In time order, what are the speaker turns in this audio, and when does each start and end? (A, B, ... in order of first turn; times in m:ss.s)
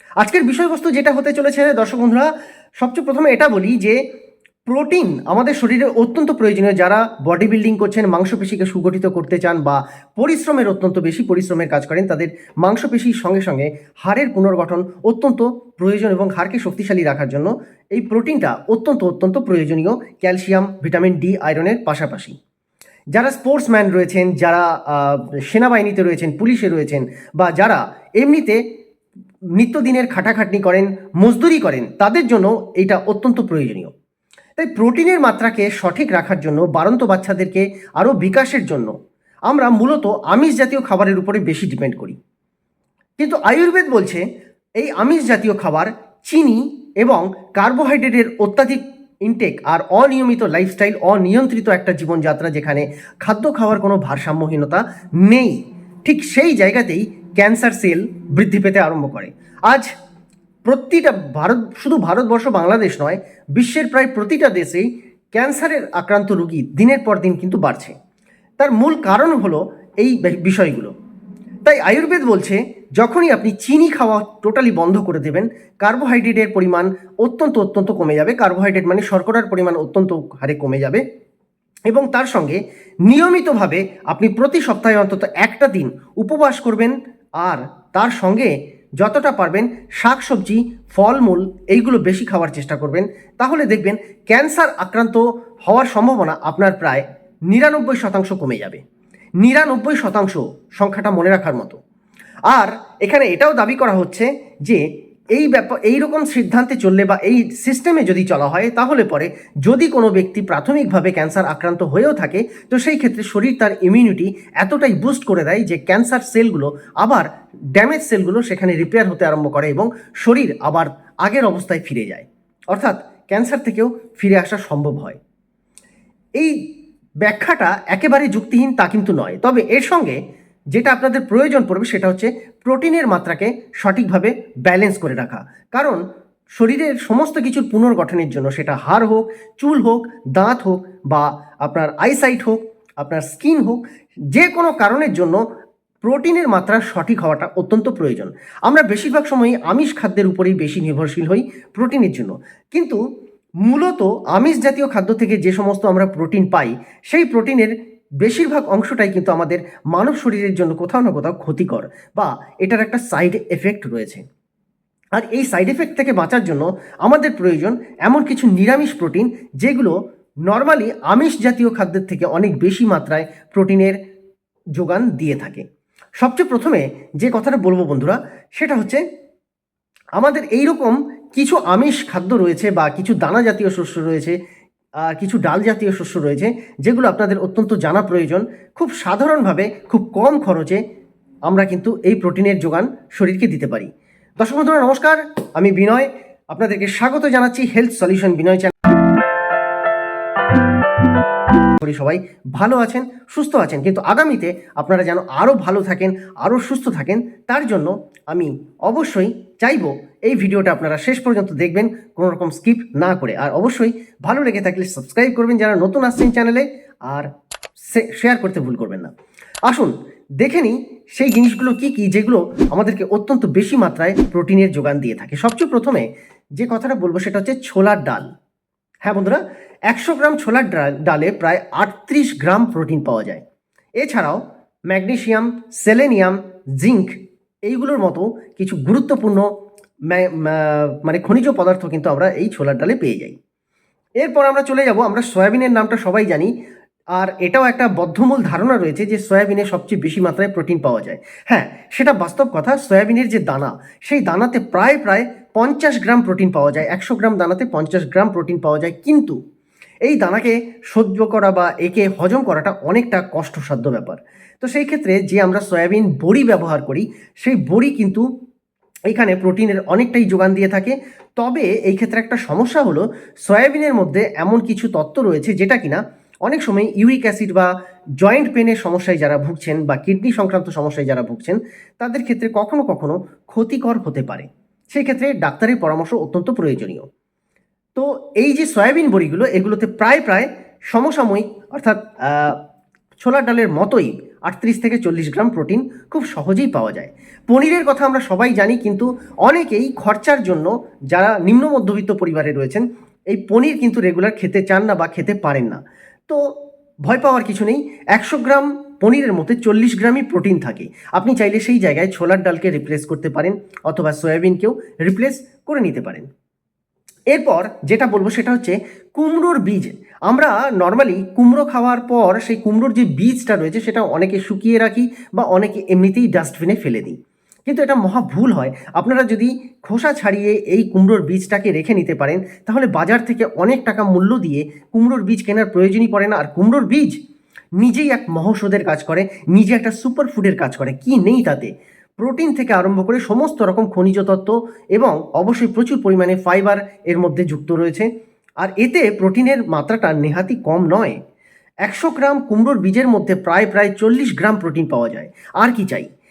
0:00.2-0:02.3 A
0:02.8-0:04.0 A
0:04.7-0:22.4 A
0:23.1-0:28.6 A
0:29.6-0:33.9 A
0:34.6-0:38.9 A
0:39.5-0:42.2 A
0:43.2-0:44.2 A
0:44.8-0:59.9 A
1:00.6-1:08.0 A
1:08.6-1:10.9 A
1:11.6-1:21.0 A
1:21.9-1:38.8 A
1:39.4-1:41.8 A
1:42.5-1:44.8 A
1:45.3-2:05.2 A
2:07.2-2:10.2 A
2:10.7-2:16.0 A
2:16.6-2:23.8 A
2:24.3-2:25.4 A
2:26.0-2:33.0 A
2:33.6-2:44.2 A
2:45.2-2:49.9 A
2:50.5-2:54.0 A
2:54.8-2:55.6 A
2:56.2-2:59.0 A
3:00.2-3:04.4 A
3:05.0-3:10.8 A
3:11.5-3:18.8 A
3:21.8-3:37.3 A
3:37.9-3:39.1 A
3:39.7-3:46.1 A
3:46.6-3:48.2 A
3:49.0-3:53.4 A
3:54.0-3:57.2 A
3:57.7-3:59.5 A
4:00.1-4:03.4 A
4:04.2-4:06.5 A
4:07.2-4:19.4 A
4:20.0-4:28.2 A
4:29.1-4:37.7 A
4:38.2-4:47.1 A
4:48.0-4:52.6 A
4:53.2-5:06.4 A
5:07.0-5:16.3 A
5:17.3-5:37.2 A
5:37.8-5:48.1 A
5:48.6-5:51.2 A
5:51.8-5:56.1 A